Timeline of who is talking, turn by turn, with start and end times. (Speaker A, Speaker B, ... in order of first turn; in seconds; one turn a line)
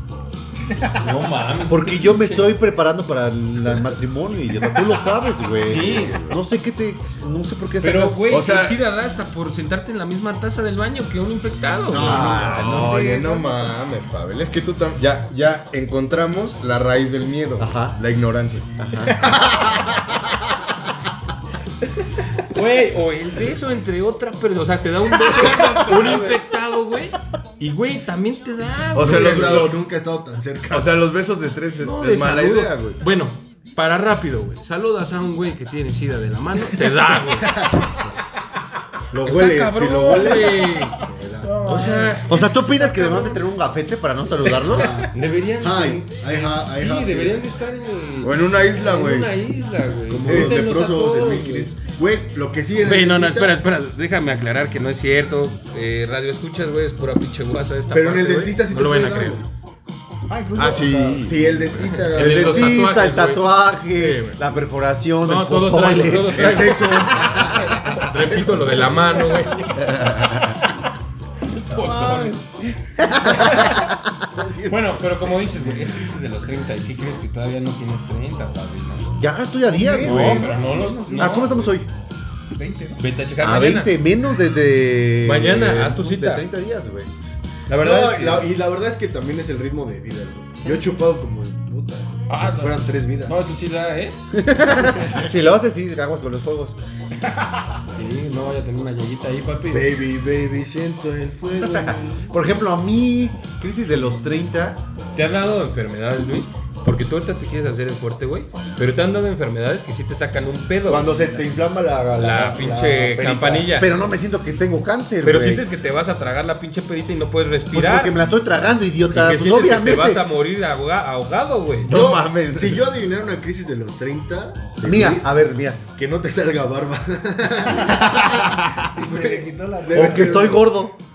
Speaker A: 0.9-2.5
Speaker B: 1.7-8.2
Speaker A: 5.6-6.2
Speaker C: 5.7-6.4
Speaker A: 7.8-12.3
Speaker C: 8.3-8.8
Speaker D: 11.9-12.4
Speaker B: 11.9-13.7
Speaker C: 12.0-18.7
Speaker B: 17.6-18.0
Speaker B: 18.8-19.3
Speaker A: 22.5-29.7
Speaker C: 28.9-29.8
Speaker D: 29.0-30.9
Speaker C: 30.7-33.0
Speaker A: 31.8-37.5
Speaker D: 37.5-38.1
Speaker D: 39.1-41.7
Speaker A: 39.2-41.0
Speaker E: 41.4-43.4
Speaker A: 41.6-42.6
Speaker B: 42.2-45.0
Speaker D: 44.7-47.4
Speaker A: 44.8-51.7
Speaker C: 48.2-49.3
Speaker D: 50.1-53.6
Speaker A: 52.8-59.4
Speaker D: 57.9-59.5
Speaker E: 60.3-61.8
Speaker C: 60.5-61.5
Speaker D: 61.2-62.9
Speaker A: 61.8-64.4
Speaker B: 62.1-67.8
Speaker A: 65.2-67.3
Speaker D: 66.4-69.0
Speaker A: 68.0-69.7
Speaker C: 69.8-70.6
Speaker A: 71.5-72.4
Speaker E: 71.7-72.5
Speaker B: 73.0-73.9
Speaker A: 74.7-79.1
Speaker B: 79.2-80.6
Speaker E: 79.7-81.8
Speaker A: 80.0-81.7
Speaker B: 81.2-81.9
Speaker E: 82.5-83.0
Speaker A: 83.0-83.9
Speaker B: 83.4-87.1
Speaker A: 85.2-86.5
Speaker A: 87.7-88.5
Speaker D: 87.8-93.3
Speaker A: 92.3-94.2
Speaker B: 94.4-96.8
Speaker A: 97.9-99.9
Speaker D: 99.7-102.2
Speaker B: 101.8-104.8
Speaker A: 105.1-111.4
Speaker D: 110.8-113.7
Speaker A: 112.1-113.9
Speaker B: 113.7-115.6
Speaker A: 115.2-118.2
Speaker B: 117.7-120.2
Speaker A: 119.1-121.9
Speaker C: 121.9-122.9
Speaker D: 121.9-125.3
Speaker B: 124.8-125.8
Speaker D: 125.9-130.8
Speaker E: 128.9-130.6
Speaker B: 129.9-130.9